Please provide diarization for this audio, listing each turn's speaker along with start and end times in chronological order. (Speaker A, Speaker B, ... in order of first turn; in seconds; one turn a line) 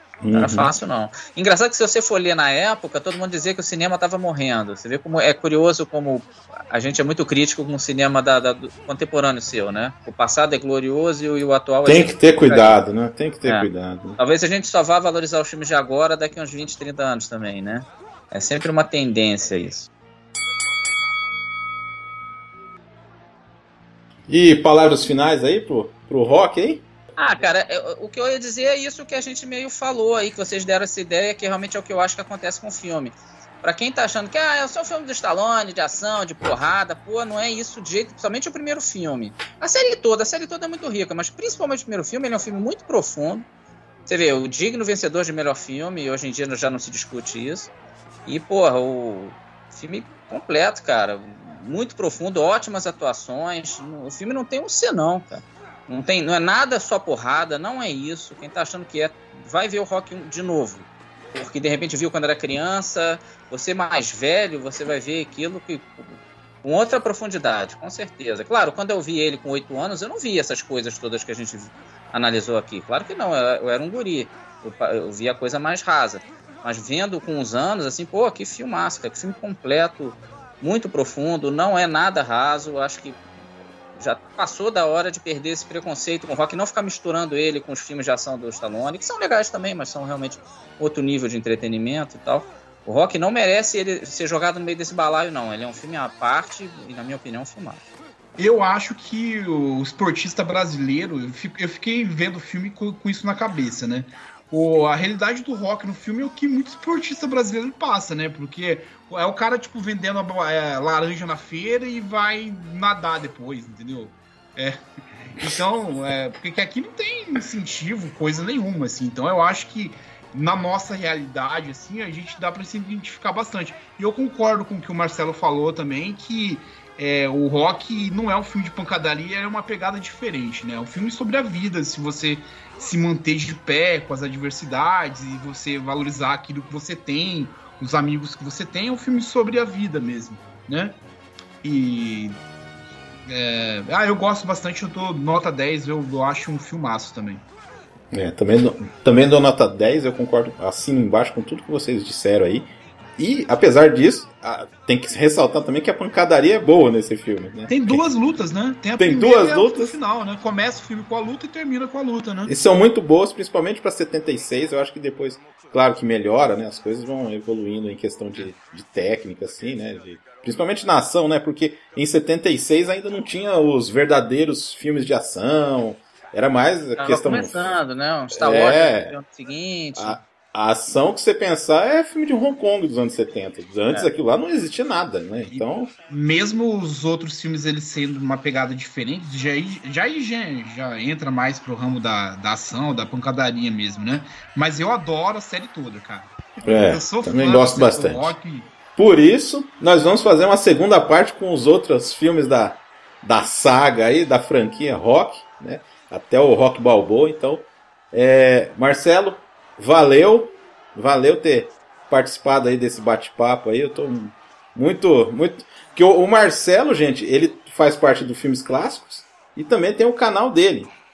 Speaker A: 0.2-0.7
Speaker B: 0.3-12.8
Speaker A: 11.8-14.2
Speaker B: 13.4-19.9
Speaker A: 24.3-26.8
Speaker B: 27.2-43.5
Speaker B: 44.0-47.7
Speaker B: 48.2-83.2
Speaker B: 84.0-97.8
Speaker C: 98.4-141.0
Speaker C: 141.6-142.4
Speaker C: 143.3-147.4
Speaker A: 148.1-158.0
Speaker C: 157.7-162.5
Speaker A: 159.0-159.9
Speaker A: 162.5-177.8
Speaker B: 177.0-180.2
Speaker A: 178.3-179.2
Speaker A: 179.9-185.9
Speaker C: 185.5-196.3
Speaker A: 196.6-198.3
Speaker C: 196.9-198.7
Speaker A: 198.9-220.9